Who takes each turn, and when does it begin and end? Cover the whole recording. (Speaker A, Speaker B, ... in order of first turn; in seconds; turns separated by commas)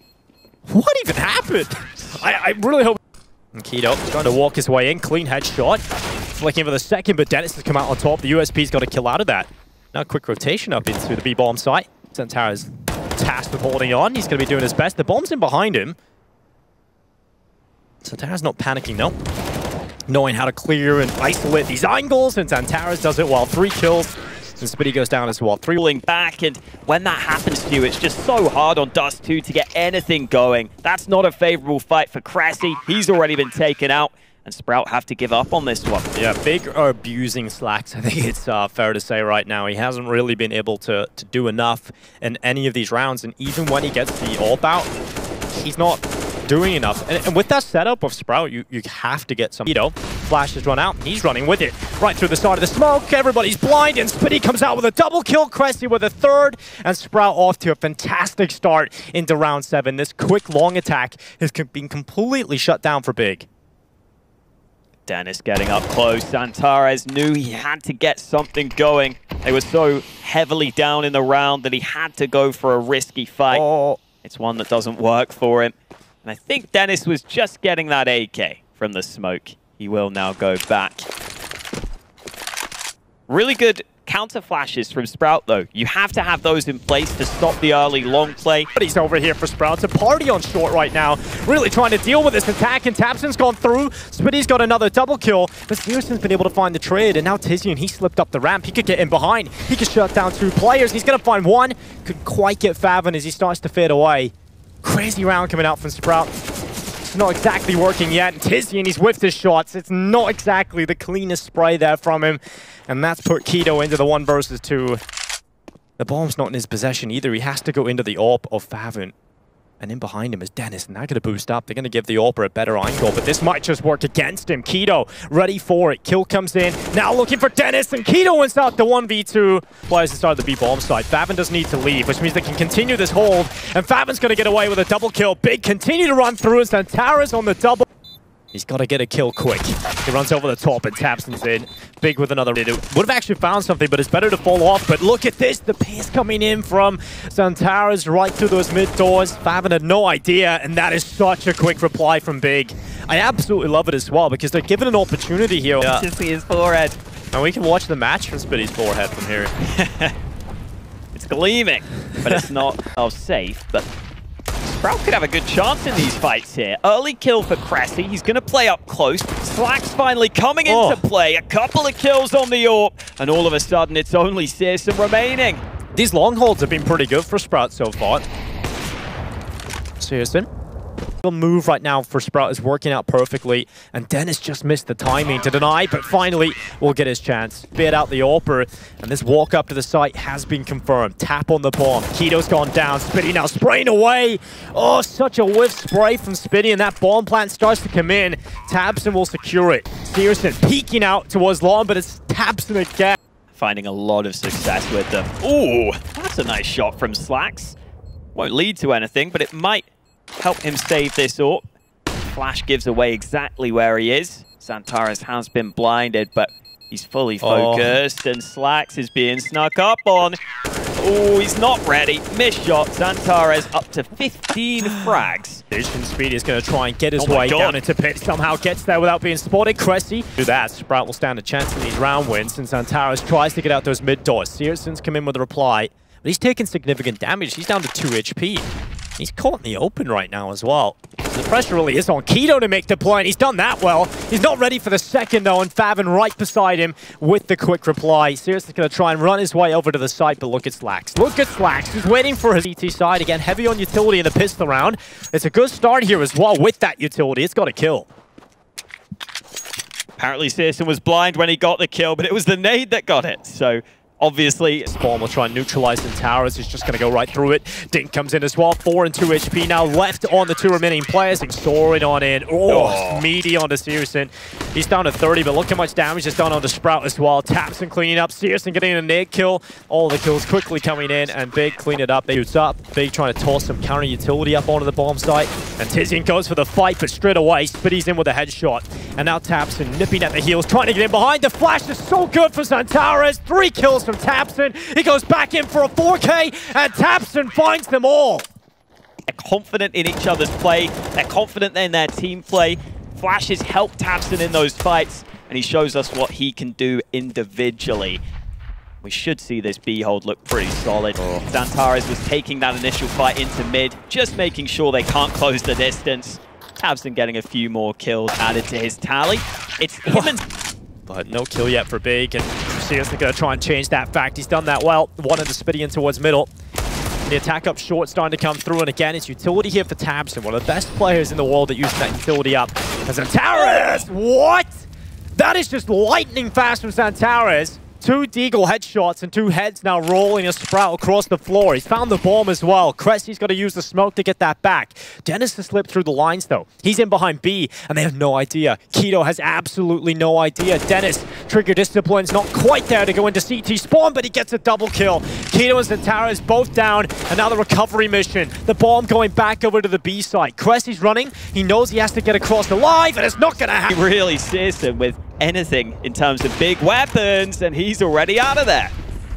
Speaker A: 0.7-3.0, Speaker A: 3.5-5.8, Speaker A: 6.3-16.0, Speaker A: 18.0-19.1, Speaker A: 20.1-25.8, Speaker B: 25.8-36.1, Speaker A: 36.1-44.9, Speaker A: 45.5-63.5, Speaker B: 65.1-73.7, Speaker A: 73.5-74.0, Speaker B: 74.2-81.1, Speaker B: 83.3-88.7, Speaker A: 88.8-106.3, Speaker A: 107.0-115.0, Speaker A: 116.0-119.1, Speaker A: 119.8-137.9, Speaker A: 138.5-156.1, Speaker B: 155.8-157.0, Speaker A: 157.3-159.5, Speaker B: 159.7-160.2, Speaker B: 161.2-163.9, Speaker B: 164.6-175.6, Speaker A: 170.7-171.0, Speaker A: 175.9-178.2, Speaker A: 180.0-180.5, Speaker A: 181.2-203.2, Speaker B: 203.6-207.8, Speaker B: 208.3-209.9, Speaker B: 210.4-211.6, Speaker B: 212.3-220.4, Speaker A: 217.4-218.0, Speaker B: 221.0-225.6, Speaker A: 225.7-258.1, Speaker B: 227.2-227.8, Speaker B: 260.2-264.9, Speaker A: 264.8-298.5, Speaker B: 272.7-273.3, Speaker B: 299.3-308.2, Speaker B: 309.0-320.5, Speaker A: 320.1-320.4, Speaker A: 321.1-326.5, Speaker A: 327.3-364.0, Speaker B: 363.9-368.9